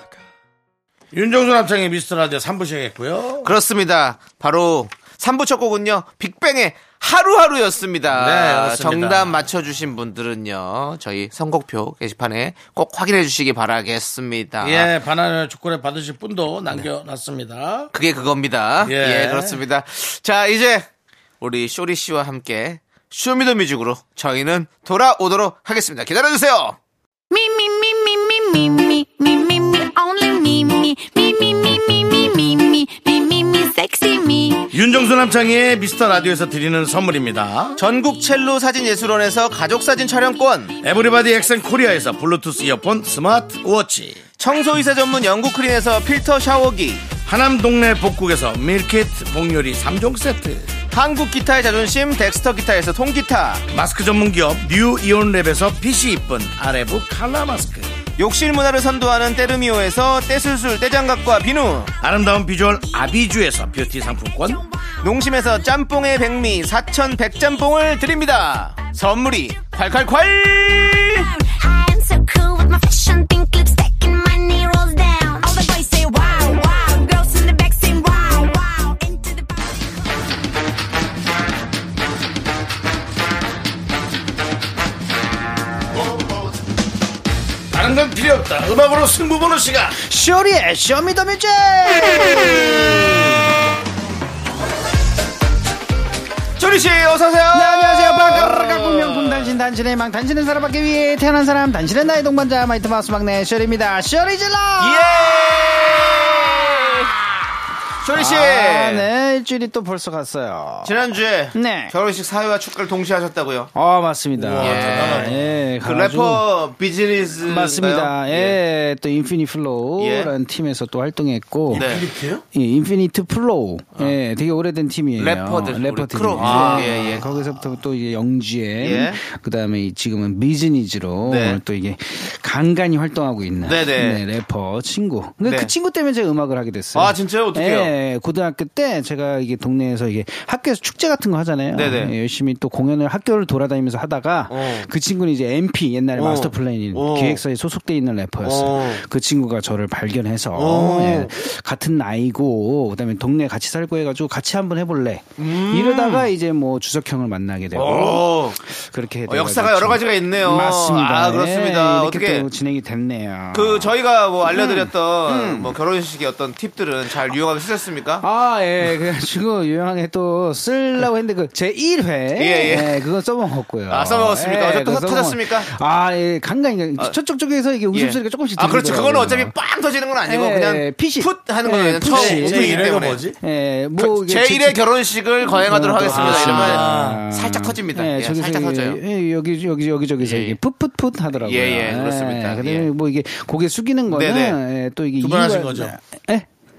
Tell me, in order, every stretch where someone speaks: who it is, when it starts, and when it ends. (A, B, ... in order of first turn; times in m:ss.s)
0:01.1-0:03.5 A
0:03.4-0:14.9 B
0:08.1-0:09.4 A
0:14.6-0:17.9 A
0:17.9-0:20.9 B
0:18.8-0:19.6 A
0:21.4-0:26.8 B
0:27.3-0:34.7 C
0:34.7-0:37.8 A
0:37.8-0:40.8 B
0:40.8-0:44.2 A
0:44.4-0:47.1 B
0:47.2-0:50.7 A
0:50.9-0:53.6 B
0:53.7-0:57.9 A
0:58.2-1:01.9 B
1:02.0-1:04.6 A
1:05.0-1:11.3 B
1:11.4-1:19.9 C
1:27.7-1:30.0 A
1:30.0-1:33.5 D
1:36.6-1:39.6 B
1:37.5-1:45.8 D
1:44.8-1:47.2 B
1:46.4-1:47.0 D
1:48.0-1:49.1 B
1:48.1-1:51.0 D
1:50.8-1:53.7 B
1:51.5-1:51.9 D
1:53.7-1:56.5 D
1:54.3-1:55.6 A
1:54.6-1:58.6 B
1:57.4-2:01.9 D
2:00.0-2:00.3 B
2:01.7-2:02.4 A
2:01.7-2:02.0 B
2:02.5-2:43.9 D
2:05.2-2:07.3 B
2:06.4-2:06.9 A
2:08.8-2:09.2 B
2:11.2-2:11.6 B
2:13.6-2:14.2 B
2:15.4-2:15.7 B
2:16.9-2:17.9 B
2:21.7-2:22.1 B
2:24.5-2:24.9 B
2:26.1-2:27.4 B
2:28.4-2:29.0 B
2:30.5-2:31.4 B
2:35.4-2:36.3 B
2:37.7-2:38.6 B
2:39.3-2:42.5 B
2:43.5-2:48.2 B
2:44.5-2:45.7 D
2:48.2-2:59.5 D
2:52.3-2:53.0 B
2:53.9-2:55.7 B
2:57.9-3:03.2 B
3:00.2-3:04.9 D
3:02.1-3:03.4 A
3:04.0-3:09.0 B
3:05.4-3:16.5 D
3:06.0-3:07.2 A
3:10.2-3:10.6 B
3:11.4-3:12.9 B
3:14.1-3:14.6 B
3:15.2-3:16.0 A